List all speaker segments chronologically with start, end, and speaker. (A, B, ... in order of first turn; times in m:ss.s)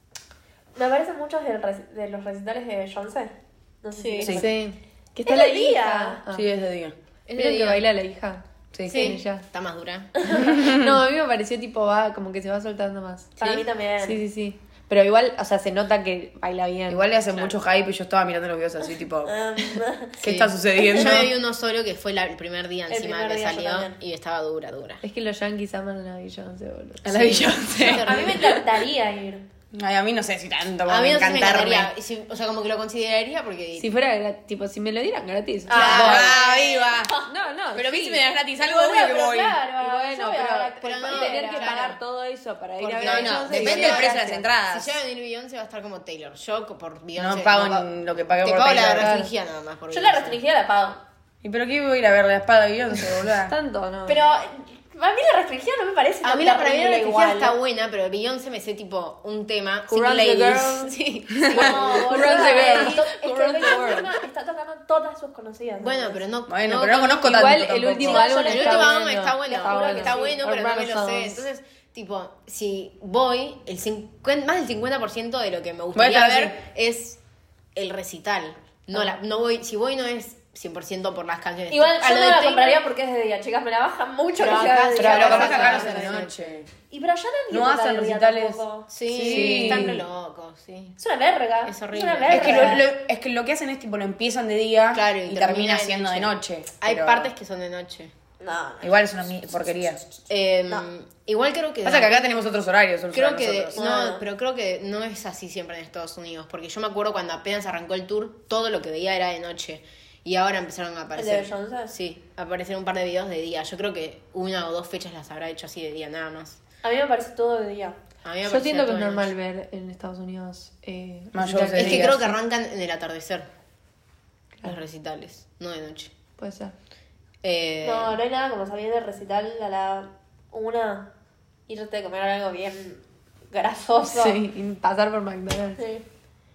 0:00.7-0:04.4 A
0:04.0-0:04.4 B
0:04.2-0:06.5 C
0:05.2-0:06.2 A
0:06.3-0:07.0 D
0:07.3-0:07.9 B
0:07.4-0:09.4 C
0:08.7-0:09.2 D
0:08.9-0:10.1 B
0:10.2-0:10.5 A
0:10.3-0:11.0 D
0:10.5-0:13.4 C
0:13.4-0:14.2 A
0:14.0-0:17.1 C
0:16.9-0:21.3 D
0:17.3-0:17.6 B
0:19.2-0:20.1 A
0:20.2-0:25.0 B
0:22.9-0:24.0 A
0:25.0-0:27.8 C
0:27.0-0:28.5 D
0:27.7-0:28.6 B
0:27.9-0:29.4 A
0:29.7-0:31.9 D
0:30.9-0:33.9 B
0:33.8-0:36.2 C
0:35.7-0:37.3 A
0:35.7-0:36.5 B
0:35.8-0:37.2 D
0:37.3-0:38.2 C
0:37.7-0:39.6 D
0:38.6-0:41.9 A
0:39.8-0:44.4 C
0:40.8-0:42.0 B
0:42.8-0:50.4 B
0:43.0-0:45.0 D
0:47.2-0:49.1 D
0:49.0-0:49.3 C
0:49.9-0:51.0 A
0:51.4-0:53.6 D
0:53.5-0:54.2 C
0:54.1-0:57.6 A
0:56.2-1:02.9 B
0:59.9-1:00.9 C
1:01.4-1:01.7 D
1:01.5-1:06.2 A
1:01.5-1:04.1 C
1:02.3-1:03.0 D
1:05.8-1:17.2 B
1:06.5-1:08.2 D
1:07.2-1:11.4 C
1:08.0-1:10.4 A
1:16.0-1:16.6 D
1:17.7-1:22.8 B
1:21.7-1:26.1 A
1:24.4-1:26.5 B
1:25.0-1:26.7 D
1:26.9-1:28.9 A
1:27.5-1:30.0 D
1:28.9-1:31.0 B
1:29.2-1:30.0 C
1:31.0-1:32.8 A
1:31.6-1:32.8 B
1:32.3-1:37.3 D
1:34.9-1:38.1 B
1:38.4-1:38.9 A
1:38.8-1:40.0 D
1:40.3-1:42.3 B
1:41.8-1:43.8 D
1:43.1-1:56.6 B
1:43.8-1:44.2 A
1:51.2-1:52.0 A
1:56.8-1:58.0 A
1:58.2-1:59.3 B
1:58.4-2:02.3 C
2:01.3-2:02.4 D
2:01.7-2:03.5 B
2:04.6-2:06.1 B
2:06.4-2:06.7 C
2:07.4-2:08.2 B
2:07.8-2:11.1 A
2:11.7-2:14.4 A
2:14.1-2:15.8 C
2:15.8-2:16.0 A